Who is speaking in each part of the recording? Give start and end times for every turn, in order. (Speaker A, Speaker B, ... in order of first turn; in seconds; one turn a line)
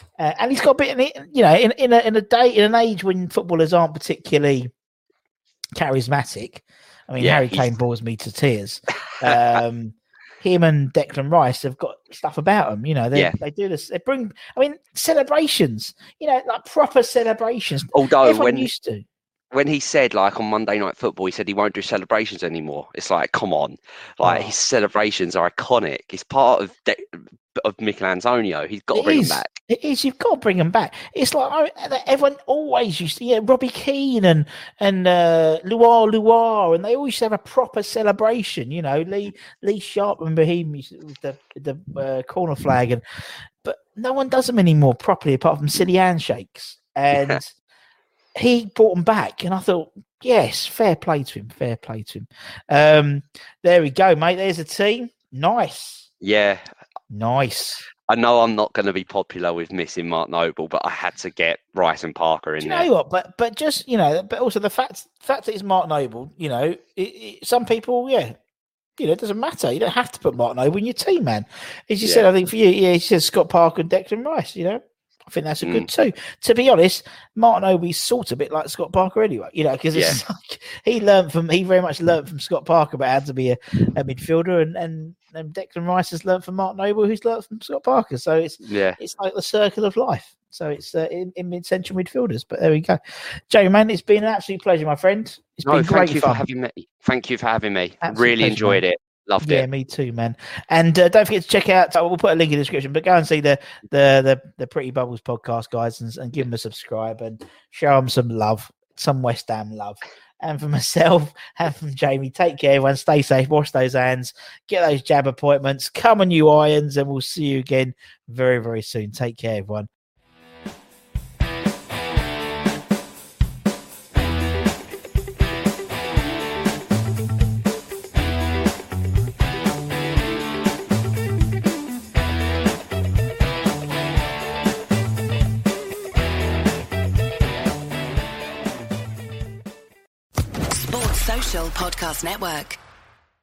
Speaker A: 0.2-4.7
Speaker A: 5.7-19.1
Speaker B: 7.2-7.7
Speaker B: 17.9-18.7
Speaker B: 19.5-27.0
Speaker A: 24.2-24.5
Speaker B: 27.5-29.6
Speaker A: 28.9-43.0
Speaker A: 43.6-47.5
Speaker A: 48.4-56.1
Speaker B: 56.2-56.7
Speaker A: 57.1-57.8
Speaker B: 58.1-62.9
Speaker A: 62.6-68.4
Speaker A: 69.0-96.5
Speaker B: 75.6-75.9
Speaker B: 79.9-80.2
Speaker B: 88.6-89.0
Speaker B: 95.7-99.7
Speaker A: 98.0-98.8
Speaker A: 99.4-119.9
Speaker C: 140.7-142.8